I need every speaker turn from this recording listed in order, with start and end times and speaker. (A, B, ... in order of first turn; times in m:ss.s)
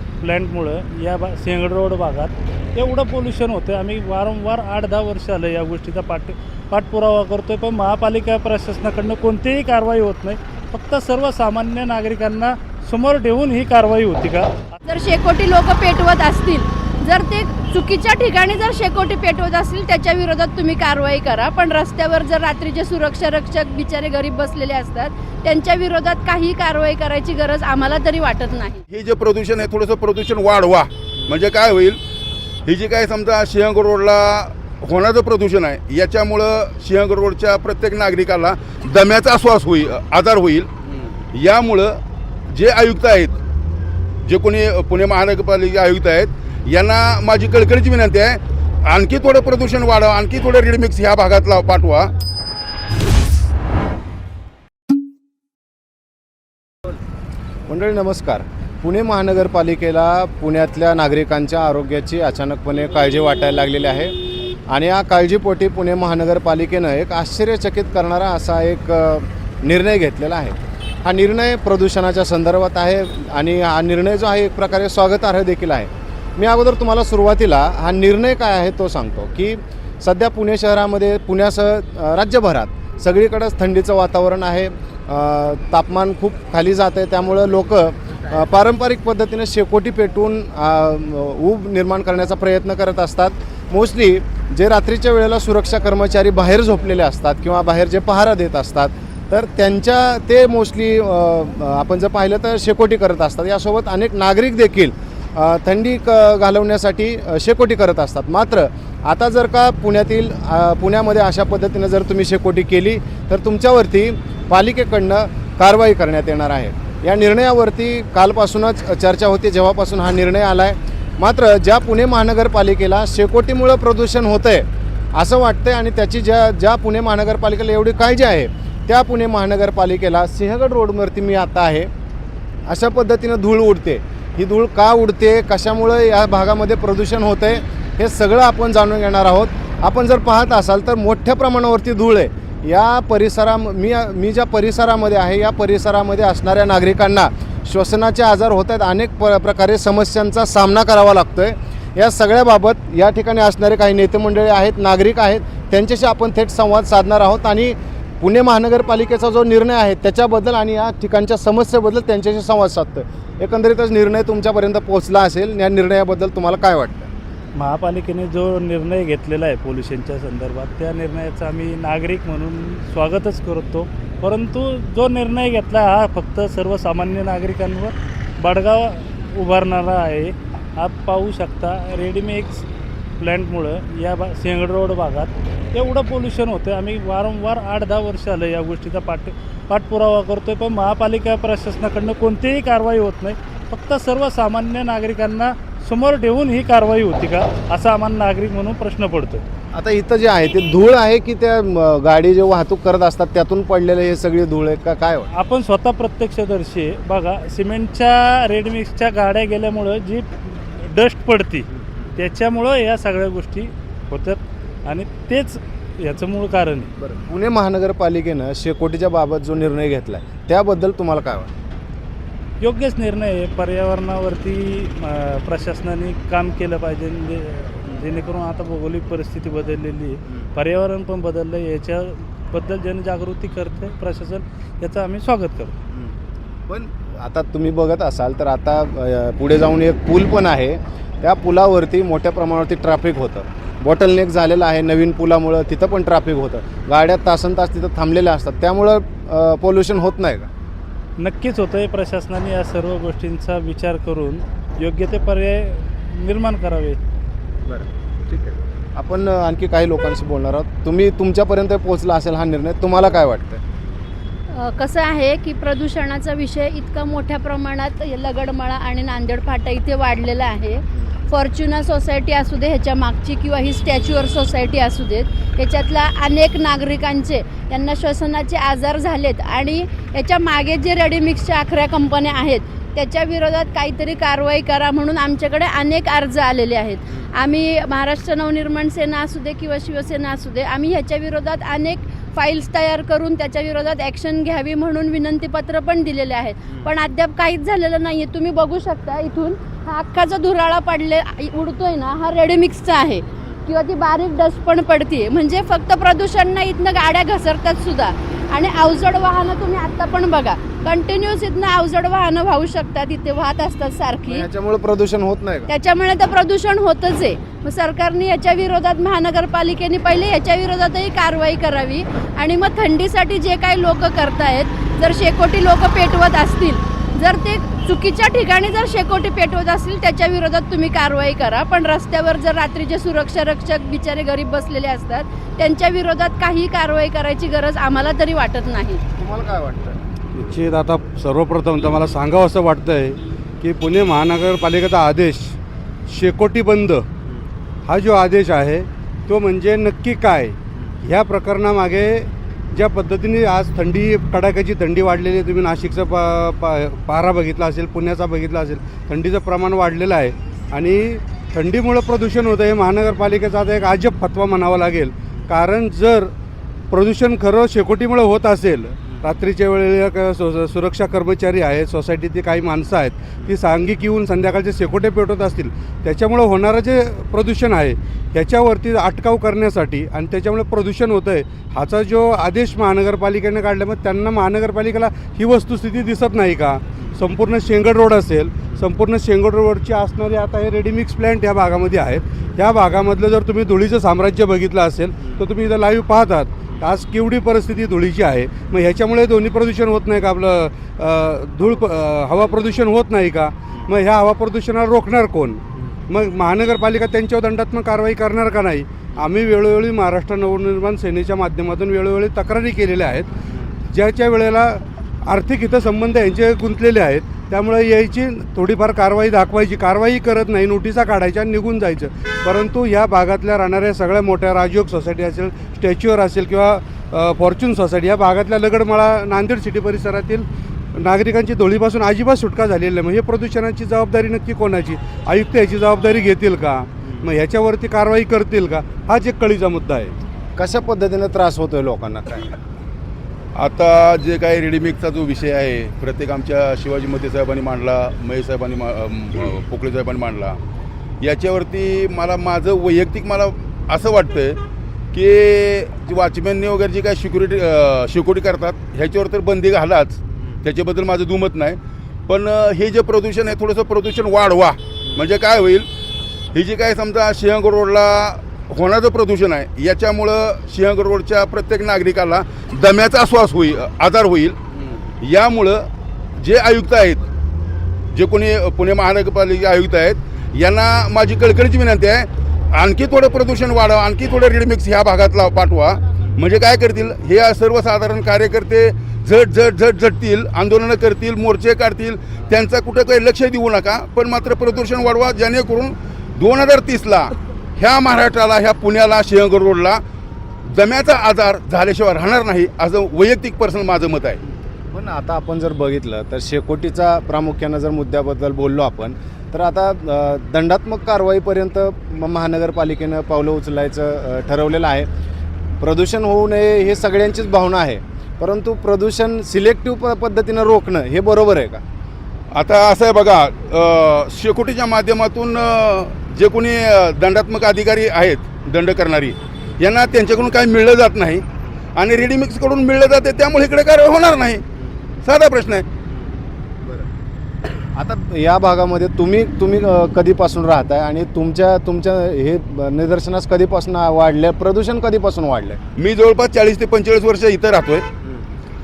0:00.2-0:14.6 A
0:14.8-0:28.8 B
0:28.9-0:32.0 C
0:32.7-0:40.7 C
0:41.3-0:43.4 C
0:44.2-0:52.1 C
0:57.7-2:11.9 D
2:12.7-2:47.1 D
2:47.6-3:02.6 A
3:03.2-3:19.4 A
3:19.7-3:25.3 D
3:25.3-3:36.9 A
3:31.8-3:32.1 D
3:37.0-3:41.5 D
3:42.6-3:55.8 A
3:56.7-4:10.5 D
4:11.2-4:17.0 A
4:17.7-4:23.6 D
4:24.5-5:14.4 B
5:14.3-5:15.7 D
5:15.7-5:39.0 B
5:39.2-5:40.0 D
5:40.4-5:45.6 E
5:46.1-5:47.1 E
5:47.9-6:06.3 E
6:06.9-6:53.3 E
6:53.5-6:53.7 D
6:53.9-7:20.1 E
7:20.6-7:22.5 D
7:23.6-7:30.6 C
7:31.2-7:34.6 C
7:35.1-7:45.9 C
7:46.5-7:54.6 C
7:55.2-7:57.2 C
7:58.1-8:20.0 C
8:20.7-8:24.4 C
8:24.9-8:35.1 D
8:35.8-8:41.8 D
8:42.5-8:54.6 C
8:55.2-8:55.9 C
8:56.1-8:57.1 D
8:58.0-9:05.8 D
9:06.0-9:08.1 C
9:08.2-9:08.5 D